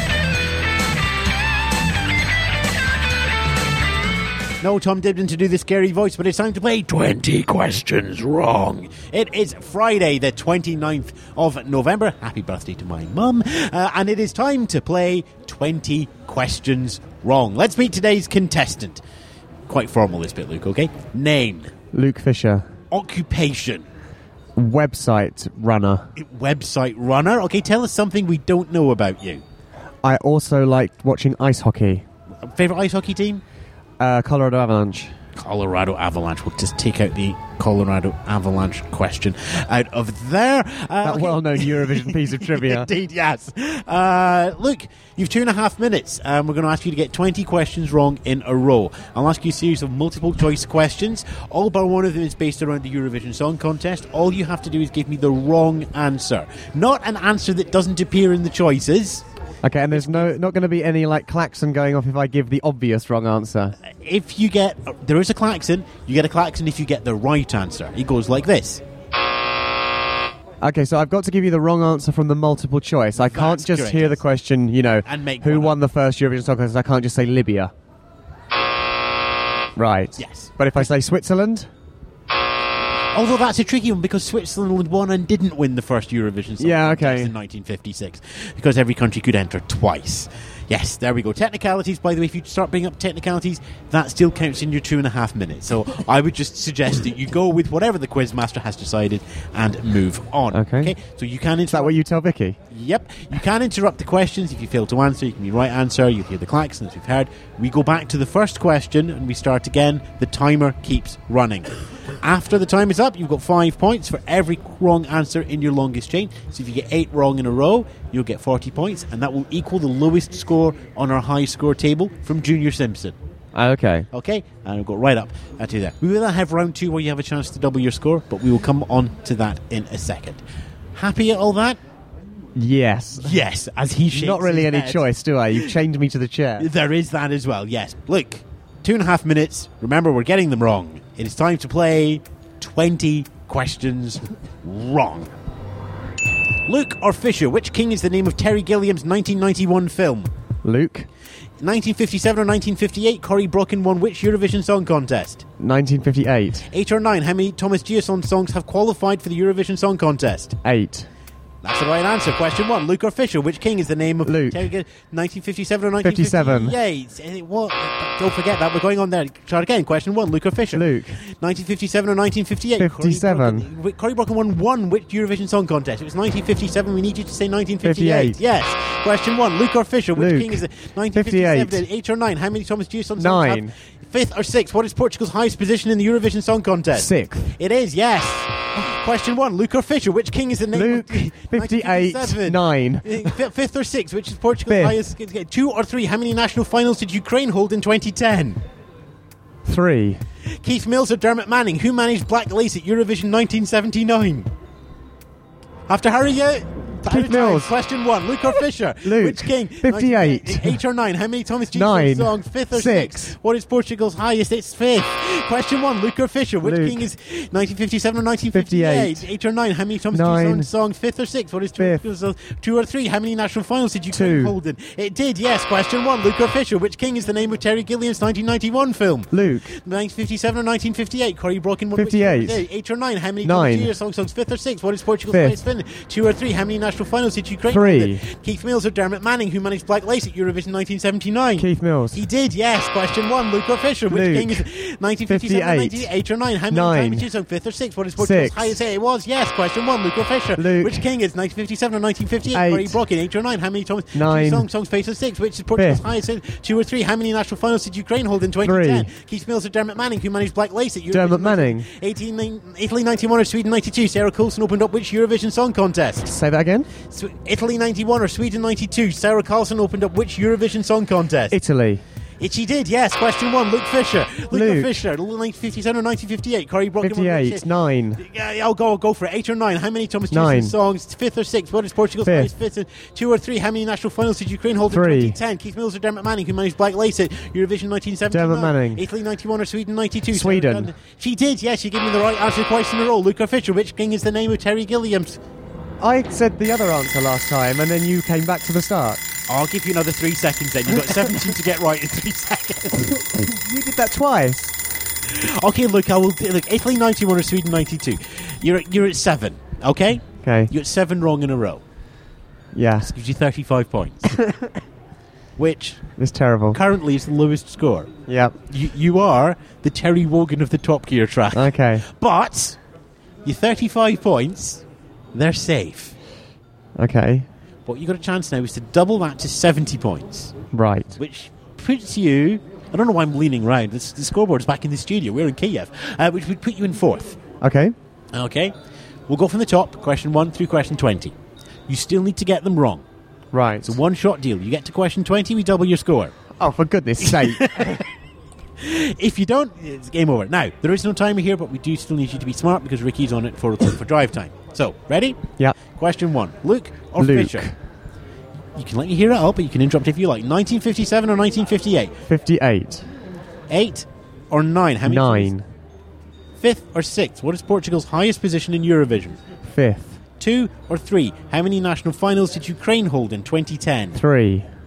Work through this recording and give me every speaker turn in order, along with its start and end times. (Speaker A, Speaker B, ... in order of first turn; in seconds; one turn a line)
Speaker A: 4.6-19.0
Speaker A: 19.7-21.7
Speaker B: 21.9-22.7
Speaker A: 22.9-23.8
Speaker B: 24.6-26.1
Speaker A: 26.1-29.4
Speaker B: 30.0-32.0
Speaker A: 32.4-33.4
Speaker B: 34.0-35.1
Speaker A: 35.4-59.2
Speaker B: 41.0-42.9
Speaker B: 59.6-63.7
Speaker A: 59.9-60.3
Speaker A: 63.8-68.8
Speaker B: 70.6-77.7
Speaker A: 73.2-74.2
Speaker A: 75.0-75.8
Speaker B: 79.8-81.7
Speaker A: 80.2-80.9
Speaker A: 83.1-102.0
Speaker B: 86.6-87.3
Speaker B: 100.5-100.9
Speaker B: 101.7-102.6
Speaker A: 102.7-123.2
Speaker B: 123.5-124.1
Speaker A: 124.1-130.4
Speaker A: 130.9-131.8
Speaker B: 132.6-133.4
Speaker A: 133.2-135.7
Speaker B: 134.1-136.7
Speaker A: 136.6-145.3
Speaker A: 146.7-150.3
Speaker B: 150.6-151.1
Speaker A: 151.6-155.4
Speaker B: 155.6-156.7
Speaker A: 156.7-160.6
Speaker B: 160.6-161.1
Speaker A: 161.6-198.6
Speaker B: 164.2-164.7
Speaker B: 166.0-166.8
Speaker B: 170.7-171.2
Speaker B: 172.8-173.7
Speaker B: 177.8-178.4
Speaker B: 180.2-180.6
Speaker B: 181.1-181.8
Speaker B: 183.2-183.7
Speaker B: 186.9-187.5
Speaker B: 190.7-193.3
Speaker B: 194.7-195.0
Speaker B: 199.6-200.2
Speaker A: 200.6-204.5
Speaker A: 205.9-266.3
Speaker B: 207.1-207.7
Speaker B: 209.0-210.8
Speaker B: 211.7-213.3
Speaker B: 216.6-217.0
Speaker B: 218.5-219.3
Speaker B: 220.1-220.7
Speaker B: 224.1-224.5
Speaker B: 229.3-229.7
Speaker B: 231.9-232.6
Speaker B: 233.4-233.9
Speaker B: 235.3-235.6
Speaker B: 237.7-238.2
Speaker B: 241.6-242.2
Speaker B: 244.1-244.6
Speaker B: 245.3-246.1
Speaker B: 246.7-247.3
Speaker B: 248.2-248.8
Speaker B: 250.6-251.0
Speaker B: 252.5-253.0
Speaker B: 254.1-254.7
Speaker B: 255.8-256.0
Speaker B: 258.6-259.1
Speaker B: 261.1-261.9
Speaker B: 266.2-266.9
Speaker A: 267.1-271.6
Speaker B: 271.5-272.0
Speaker A: 272.4-295.4
Speaker B: 274.5-275.0
Speaker B: 277.0-278.2
Speaker B: 280.3-280.7
Speaker B: 282.2-282.5
Speaker B: 284.9-285.4
Speaker B: 288.3-289.0
Speaker B: 290.3-290.9
Speaker B: 296.0-299.2
Speaker A: 299.5-303.2
Speaker B: 303.3-304.7
Speaker A: 305.3-311.8
Speaker B: 310.4-310.7
Speaker B: 312.7-313.1
Speaker A: 313.0-314.3
Speaker A: 315.6-316.0
Speaker B: 316.2-316.8
Speaker A: 316.7-318.1
Speaker B: 318.3-318.5
Speaker A: 318.6-322.8
Speaker B: 321.5-322.0
Speaker A: 323.4-326.1
Speaker B: 327.0-327.4
Speaker A: 327.9-330.6
Speaker B: 330.7-331.1
Speaker A: 331.1-337.4
Speaker B: 337.6-337.9
Speaker A: 338.3-338.7
Speaker A: 339.3-341.3
Speaker A: 341.9-343.0
Speaker B: 343.5-344.0
Speaker A: 343.8-346.4
Speaker B: 346.6-347.7
Speaker A: 347.2-348.1
Speaker A: 348.8-357.7
Speaker B: 357.2-357.8
Speaker A: 358.8-362.1
Speaker B: 362.3-363.0
Speaker A: 363.7-365.5
Speaker B: 365.1-365.6
Speaker A: 366.6-369.4
Speaker B: 369.7-370.2
Speaker A: 370.4-374.2
Speaker B: 374.1-374.7